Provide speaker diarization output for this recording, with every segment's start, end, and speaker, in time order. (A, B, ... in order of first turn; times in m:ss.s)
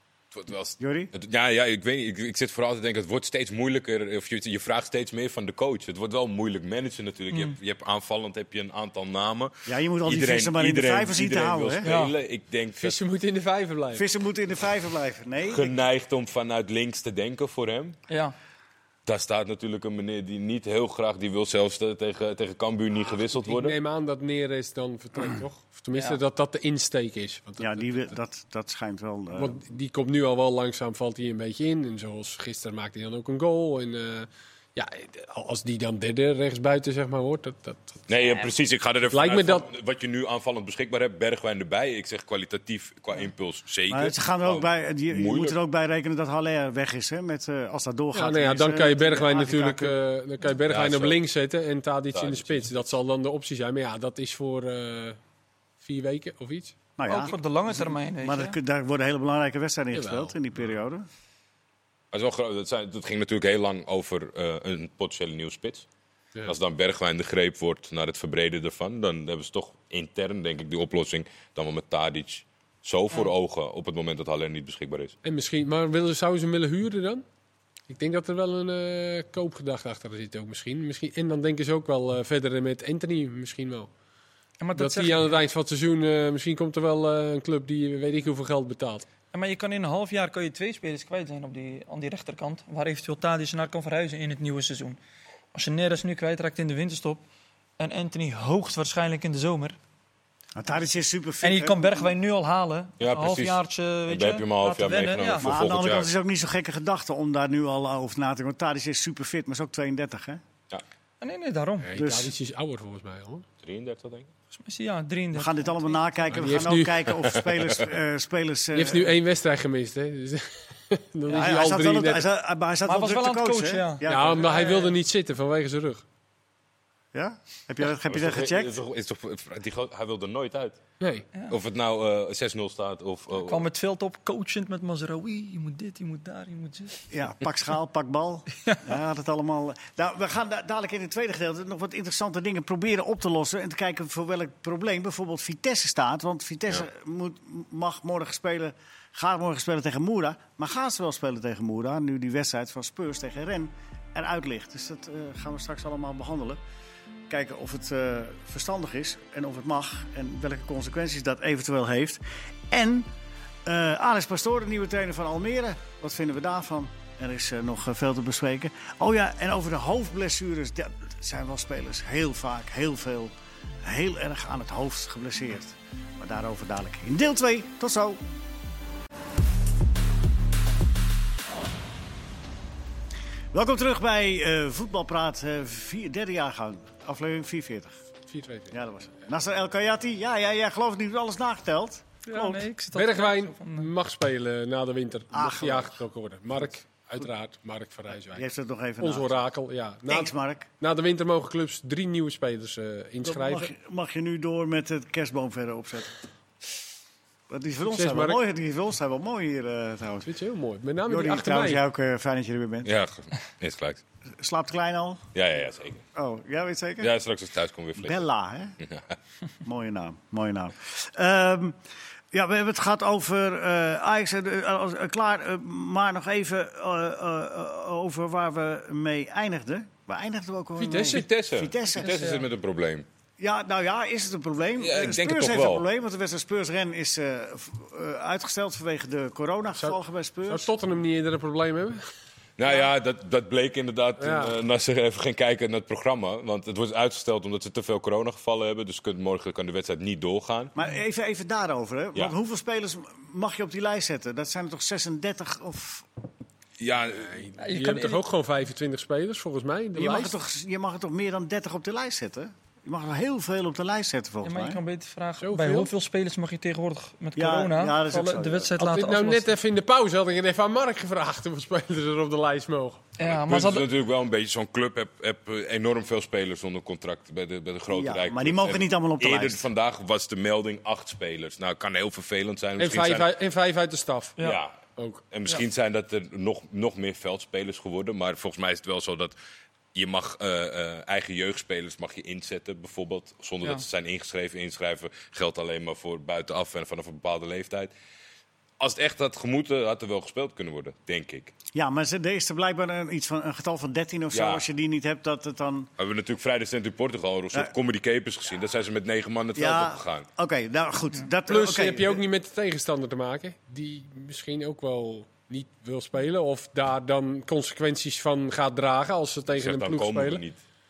0:00.3-0:13.0 A
0:00.8-0:01.1 B
0:07.3-0:07.6 C
0:09.7-0:11.9 B
0:11.8-0:12.1 C
0:12.8-0:14.0 D
0:13.9-0:15.7 B
0:15.5-0:18.0 A
0:18.1-0:18.4 C
0:19.1-0:23.8 A
0:23.1-0:28.1 D
0:25.9-0:26.2 C
0:27.6-0:29.6 B
0:29.4-0:38.0 D
0:38.1-0:45.6 A
0:39.1-0:39.7 D
0:43.9-0:50.0 B
0:48.1-0:55.2 D
0:50.7-0:51.2 A
0:52.1-0:52.8 A
0:55.8-0:56.8 D
0:57.0-1:01.1 B
0:57.1-0:58.6 C
0:59.9-1:00.4 D
1:02.1-1:05.9 A
1:06.5-1:15.2 A
1:15.2-1:17.2 D
1:17.9-1:23.9 D
1:24.6-1:25.3 C
1:24.8-1:29.1 D
1:29.3-1:35.0 C
1:35.5-1:37.2 C
1:37.8-1:39.8 C
1:40.6-1:42.1 B
1:41.4-1:45.7 C
1:43.0-1:46.1 A
1:45.4-1:50.4 B
1:51.2-1:51.9 C
1:51.8-1:53.5 D
1:52.0-1:52.3 B
1:53.6-1:54.3 A
1:54.5-1:56.5 C
1:55.4-1:59.2 B
1:56.3-1:57.4 D
1:58.7-2:02.3 D
2:01.3-2:04.6 B
2:02.9-2:04.9 C
2:04.1-2:06.0 D
2:07.1-2:08.7 B
2:08.1-2:10.8 A
2:11.0-2:11.3 D
2:11.5-2:13.7 A
2:13.4-2:17.0 C
2:17.1-2:36.6 B
2:37.3-2:43.1 B
2:43.7-2:53.3 B
2:53.8-2:58.2 B
3:03.5-3:08.0 B
3:08.3-3:08.8 D
3:08.7-3:12.6 B
3:12.3-3:13.9 C
3:12.9-3:18.5 D
3:15.3-3:16.0 B
3:18.4-3:19.3 B
3:19.0-3:23.7 D
3:20.1-3:20.7 B
3:23.2-3:26.2 B
3:27.5-3:30.3 B
3:27.9-3:28.4 D
3:30.2-3:31.8 D
3:31.1-3:32.9 B
3:32.8-3:34.0 A
3:34.4-3:35.2 B
3:35.4-3:36.0 A
3:36.2-3:37.1 B
3:37.0-3:38.2 A
3:38.0-3:38.8 B
3:38.8-3:39.2 A
3:39.6-3:41.8 B
3:42.3-3:52.3 B
3:50.8-3:51.3 D
3:51.0-3:53.1 A
3:52.0-3:52.4 C
3:53.4-4:00.7 B
3:54.8-3:55.9 A
3:59.8-4:02.0 D
4:02.6-4:10.7 A
4:04.2-4:04.5 D
4:10.8-4:16.1 B
4:16.8-4:17.5 A
4:17.4-4:20.4 D
4:17.6-4:18.2 C
4:20.0-4:24.8 B
4:24.4-4:29.5 C
4:25.4-4:25.9 D
4:27.4-4:28.7 B
4:28.8-4:33.0 D
4:33.2-4:33.9 C
4:33.2-4:43.3 A
4:37.9-4:39.6 B
4:42.8-4:44.4 D
4:44.4-4:44.8 A
4:45.0-4:45.2 D
4:45.3-4:49.4 A
4:49.9-4:57.9 A
4:58.8-5:01.5 A
5:01.7-5:05.9 B
5:04.3-5:04.6 A
5:06.0-5:10.3 A
5:09.6-5:12.2 B
5:11.5-5:20.4 D
5:19.5-5:20.6 A